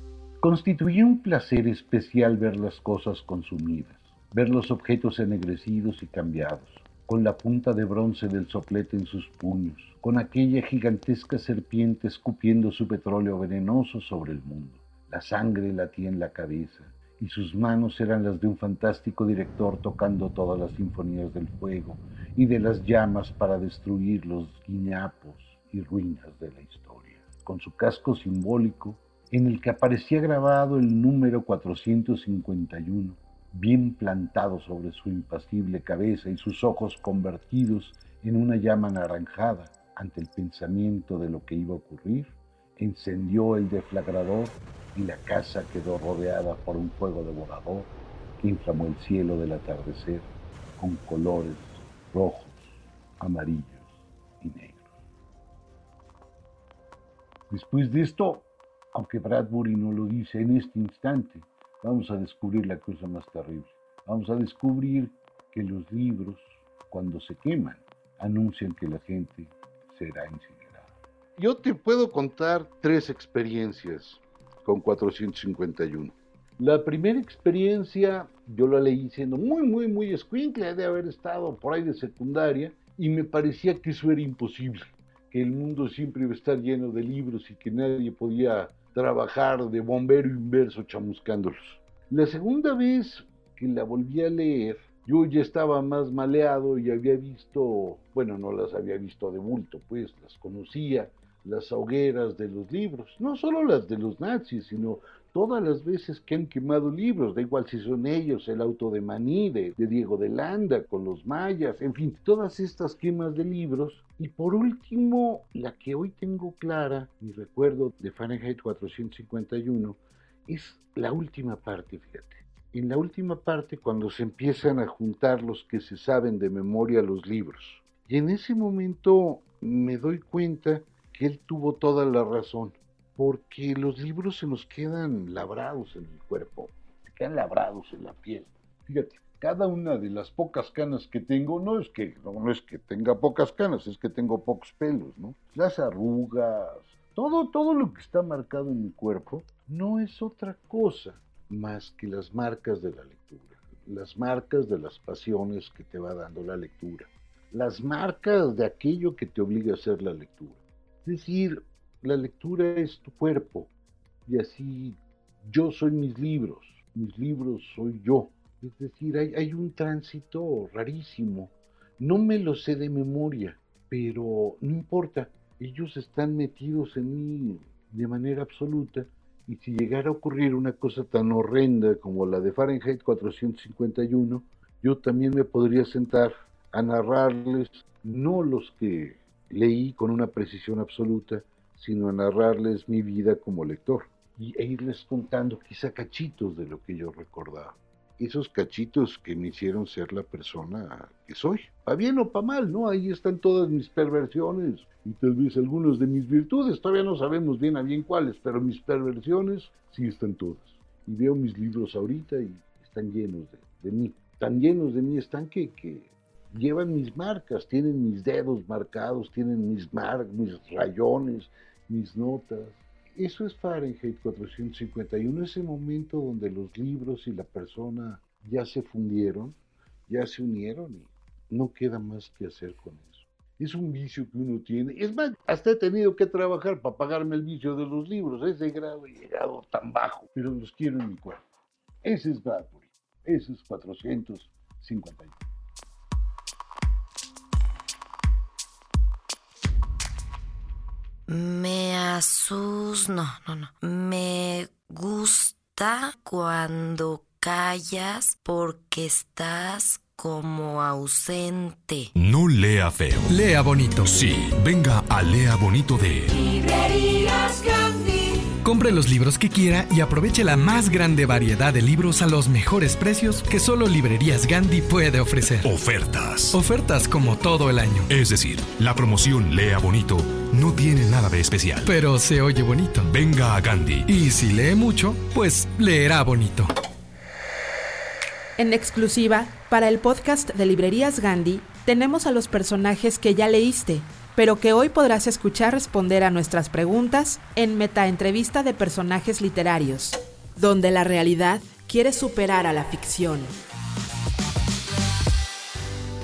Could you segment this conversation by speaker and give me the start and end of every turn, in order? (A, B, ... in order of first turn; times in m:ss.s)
0:00.4-0:50.2 A
0:50.8-0:53.8 A
0:54.4-0:54.8 A
0:57.5-2:43.7 A
2:44.3-3:49.6 A
3:50.1-4:01.4 A
4:02.0-4:05.4 A
4:11.3-4:22.1 B
4:22.2-4:23.3 C
4:23.3-4:24.1 D
4:24.1-4:26.3 C
4:28.6-4:35.7 D
4:35.6-4:36.6 C
4:36.5-4:38.1 D
4:38.1-4:41.9 C
4:41.8-4:43.1 D
4:43.1-4:44.0 C
4:44.1-4:46.7 D
4:48.6-5:03.5 E